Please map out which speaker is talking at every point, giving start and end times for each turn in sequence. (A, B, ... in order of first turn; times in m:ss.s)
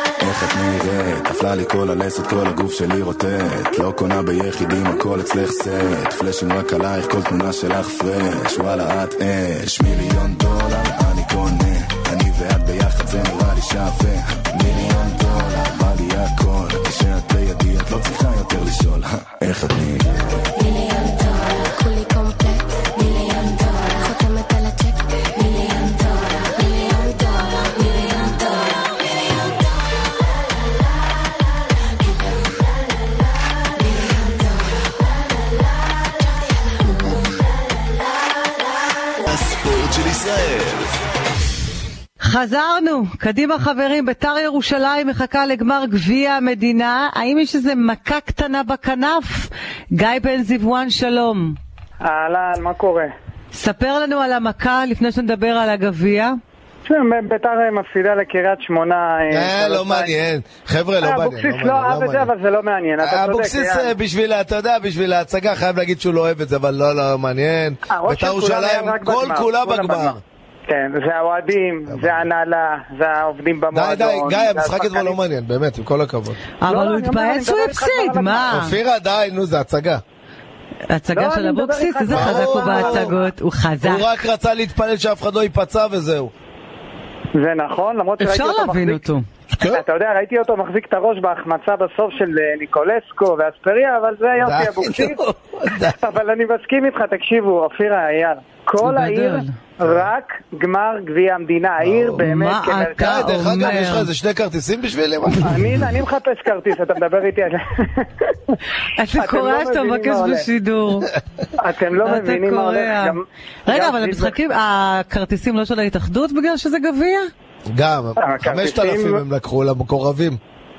0:00.2-0:20.4 A
0:20.6-0:29.6 B
0:33.8-0:34.6 B
0:39.2-0:41.0 A
0:42.2-0:51.6 C
0:52.0-0:53.1 D
0:53.5-0:56.4 C
0:56.9-1:00.1 D
0:59.3-1:02.3 E
1:01.0-1:03.9 D
1:03.0-1:10.2 E
1:07.9-1:10.2 D
1:10.7-1:15.2 D
1:13.7-1:16.4 E
1:16.6-1:18.7 C
1:16.7-1:18.5 D
1:18.5-1:20.0 E
1:20.9-1:24.1 C
1:21.1-1:23.3 D
1:22.1-1:23.1 E
1:23.8-1:26.3 E
1:27.4-1:29.0 D
1:28.2-1:29.2 C
1:29.5-1:29.8 E
1:29.6-1:35.2 D
1:34.4-1:36.0 E
1:35.9-1:43.2 D
1:38.8-1:39.5 C
1:41.8-1:42.2 E
1:42.2-1:44.1 C
1:43.0-1:45.8 E
1:45.4-1:48.6 D
1:49.0-1:51.1 C
1:49.1-1:50.5 D
1:51.6-1:54.4 D
1:52.0-1:57.3 C
1:57.7-2:00.4 E
1:58.2-1:59.2 D